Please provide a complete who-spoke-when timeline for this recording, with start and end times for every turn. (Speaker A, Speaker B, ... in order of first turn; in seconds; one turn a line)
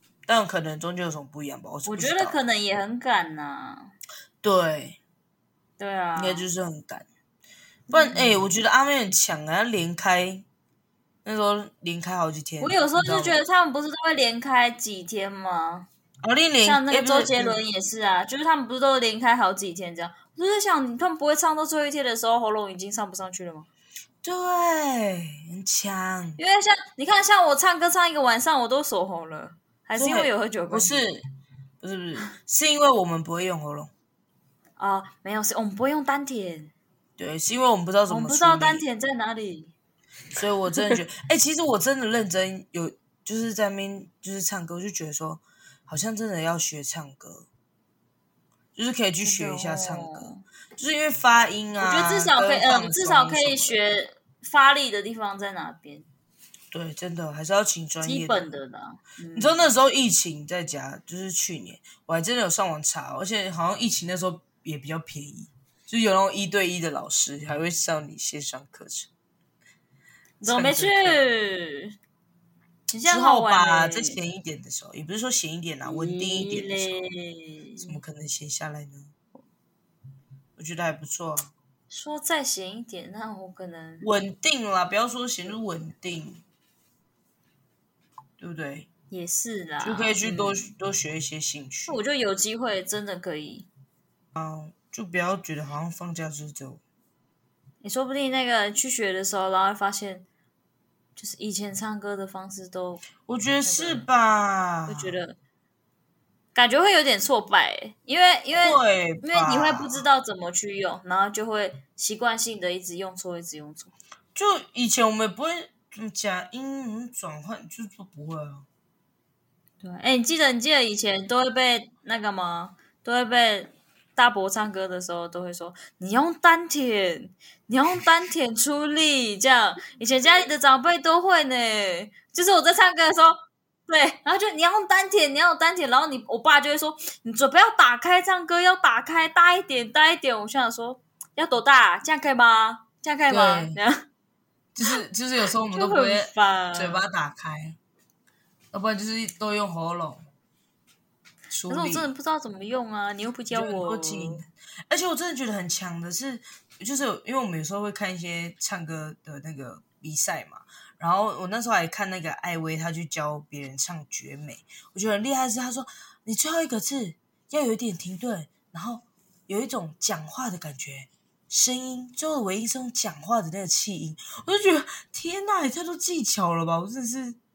Speaker A: 0.3-2.4
Speaker B: 1.9-3.9
Speaker A: 4.4-5.0
Speaker B: 5.8-6.5
Speaker A: 6.2-7.1
Speaker B: 7.9-8.4
Speaker A: 7.9-10.4
Speaker A: 11.2-13.4
Speaker B: 12.6-15.9
Speaker A: 16.2-17.6
Speaker B: 16.6-23.7
Speaker A: 24.2-26.4
Speaker B: 26.4-31.1
Speaker A: 30.0-31.2
Speaker A: 31.8-33.9
Speaker B: 34.8-36.7
Speaker A: 37.2-38.8
Speaker B: 38.1-39.7
Speaker A: 40.4-47.5
Speaker A: 48.8-53.8
Speaker B: 49.2-50.4
Speaker B: 51.8-56.1
Speaker A: 56.7-58.5
Speaker B: 58.0-59.7
Speaker A: 59.4-69.1
Speaker B: 70.4-72.0
Speaker A: 70.4-71.2
Speaker B: 72.9-74.2
Speaker A: 73.0-77.1
Speaker B: 75.8-78.0
Speaker A: 77.8-79.1
Speaker A: 80.6-81.5
Speaker B: 81.9-84.1
Speaker A: 84.0-86.4
Speaker A: 88.4-88.9
Speaker B: 89.1-90.7
Speaker A: 89.8-92.0
Speaker B: 91.9-93.7
Speaker A: 94.3-96.8
Speaker B: 97.8-100.2
Speaker B: 101.2-104.1
Speaker A: 103.2-105.2
Speaker B: 104.9-105.4
Speaker B: 106.5-114.0
Speaker A: 108.5-110.0
Speaker A: 114.3-118.7
Speaker B: 119.8-144.1
Speaker A: 143.3-143.8
Speaker A: 144.8-147.8
Speaker B: 145.7-147.0
Speaker A: 148.7-150.2
Speaker A: 151.5-152.1
Speaker B: 151.7-154.4
Speaker A: 153.5-177.4